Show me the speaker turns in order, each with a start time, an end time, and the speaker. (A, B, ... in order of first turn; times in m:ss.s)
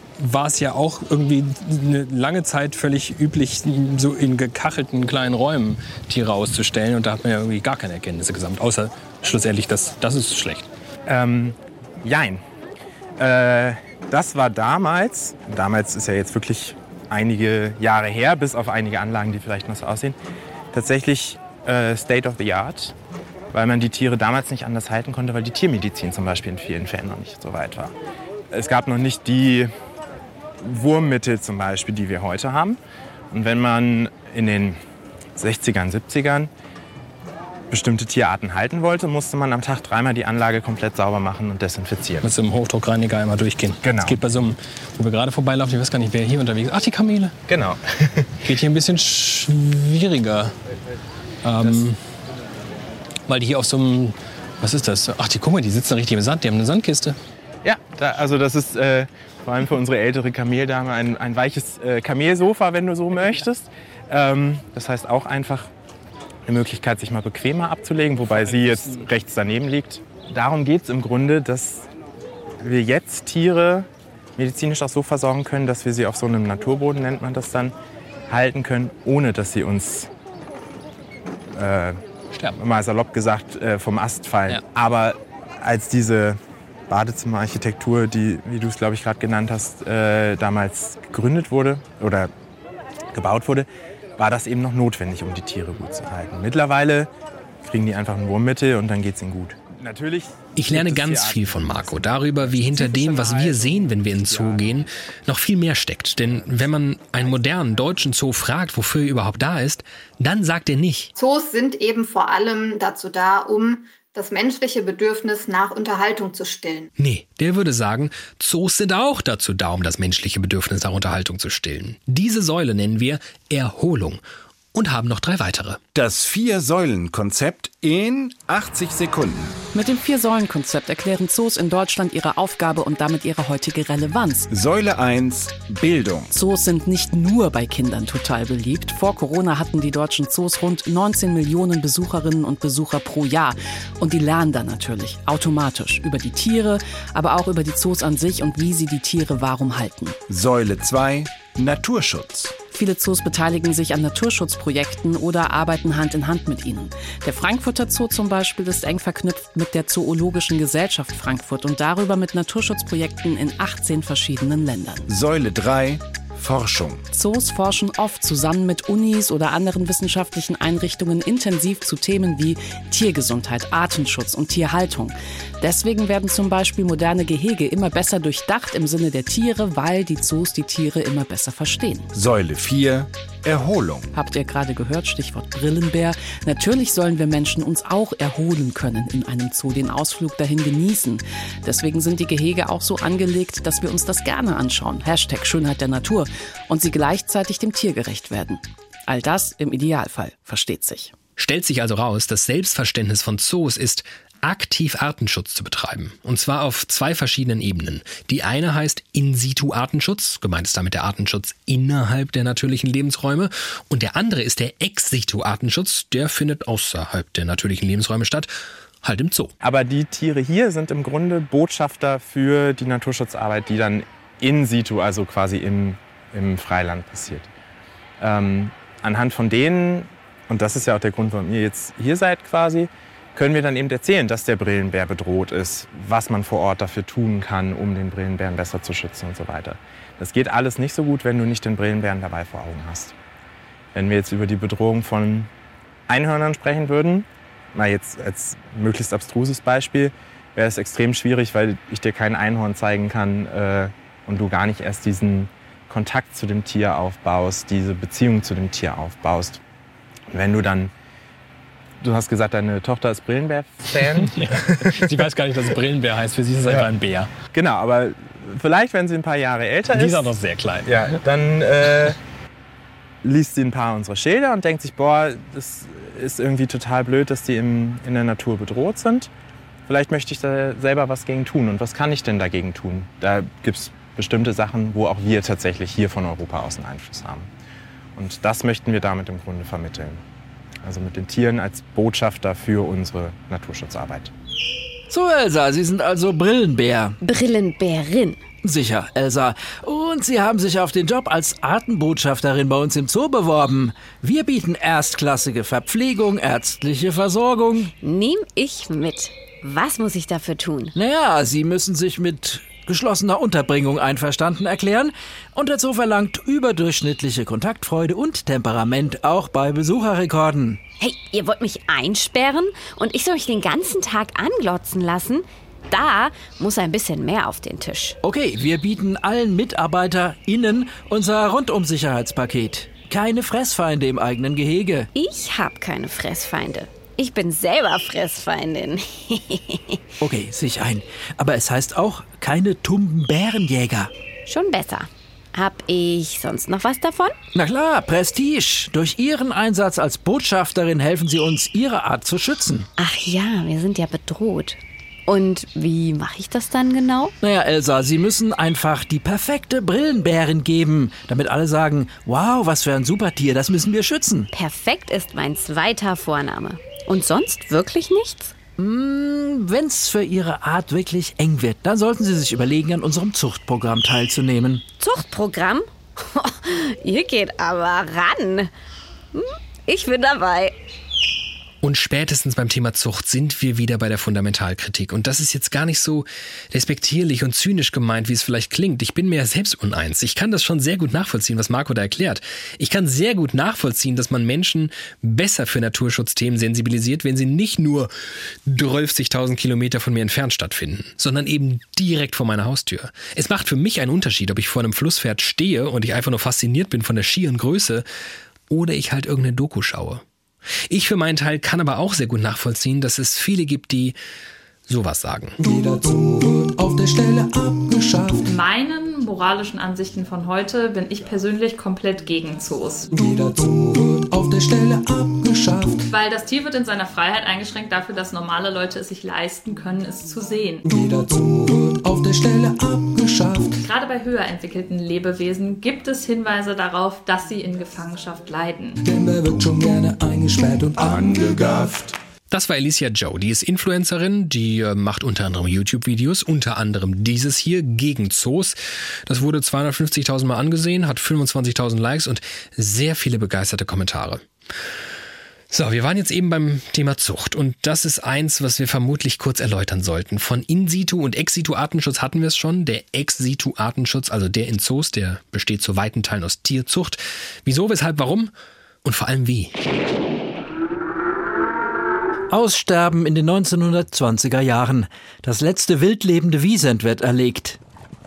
0:00.2-0:10.7 A
0:11.1-0:12.4 B
0:13.2-0:20.2 B
0:20.7-0:23.0 B
0:23.5-0:27.9 B
0:28.5-0:29.7 B
0:30.6-0:32.8 B
0:33.3-0:34.8 B
0:35.4-0:36.5 B
0:37.7-0:42.3 B
0:42.2-0:47.4 A
0:43.8-0:44.2 B
0:47.5-0:48.4 B
0:48.4-0:50.6 A
0:51.4-0:52.0 A
0:53.3-0:57.2 A
0:57.6-1:05.7 B
1:06.5-1:11.9 B
1:08.5-1:09.0 A
1:12.6-1:17.8 B
1:18.3-1:20.1 B
1:21.6-1:22.0 B
1:22.6-1:32.3 B
1:33.1-1:37.1 B
1:37.6-1:44.7 B
1:40.6-1:51.1 A
1:46.3-1:46.7 B
1:51.2-1:56.9 C
1:57.0-2:04.2 A
2:04.7-2:05.8 A
2:05.9-2:09.6 D
2:09.7-2:14.5 E
2:14.5-2:16.3 D
2:16.3-2:30.2 E
2:30.3-2:32.6 D
2:32.7-2:45.0 E
2:45.1-2:47.0 D
2:47.1-3:02.1 E
3:02.1-3:04.1 D
3:04.2-3:21.1 E
3:21.4-3:38.5 A
3:39.0-3:39.5 A
3:39.6-3:47.5 B
3:48.2-4:03.2 B
4:03.9-4:05.5 B
4:06.1-4:19.6 B
4:20.3-4:20.9 B
4:22.0-4:25.2 B
4:24.2-4:27.3 A
4:27.5-4:32.2 B
4:29.9-4:30.9 A
4:33.2-4:39.3 B
4:39.9-4:47.5 B
4:48.2-4:50.2 B
4:50.8-4:54.3 B
4:55.1-4:57.2 F
4:57.2-4:58.4 G
4:58.6-5:07.9 F
5:08.0-5:10.9 G
5:11.0-5:20.8 F
5:21.0-5:28.2 G
5:28.2-5:35.1 F
5:35.1-5:40.0 G
5:40.2-5:44.1 F
5:44.5-5:47.3 G
5:47.6-5:52.9 F
5:53.0-5:57.3 G
5:57.4-6:04.5 F
6:04.5-6:08.6 G
6:08.8-6:14.8 F
6:15.0-6:18.7 G
6:19.3-6:20.8 G
6:21.8-6:38.1 A
6:38.7-6:48.0 A
6:48.7-6:50.2 A
6:50.9-6:54.2 A
6:54.9-6:55.6 A
6:55.6-6:58.5 H
6:58.4-7:03.1 I
7:03.1-7:06.1 H
7:06.1-7:10.8 I
7:10.8-7:13.8 H
7:13.8-7:19.0 I
7:19.0-7:22.1 H
7:21.0-7:21.9 D
7:22.5-7:34.4 A
7:35.7-7:48.5 A
7:49.0-7:49.8 A
7:52.5-7:57.8 F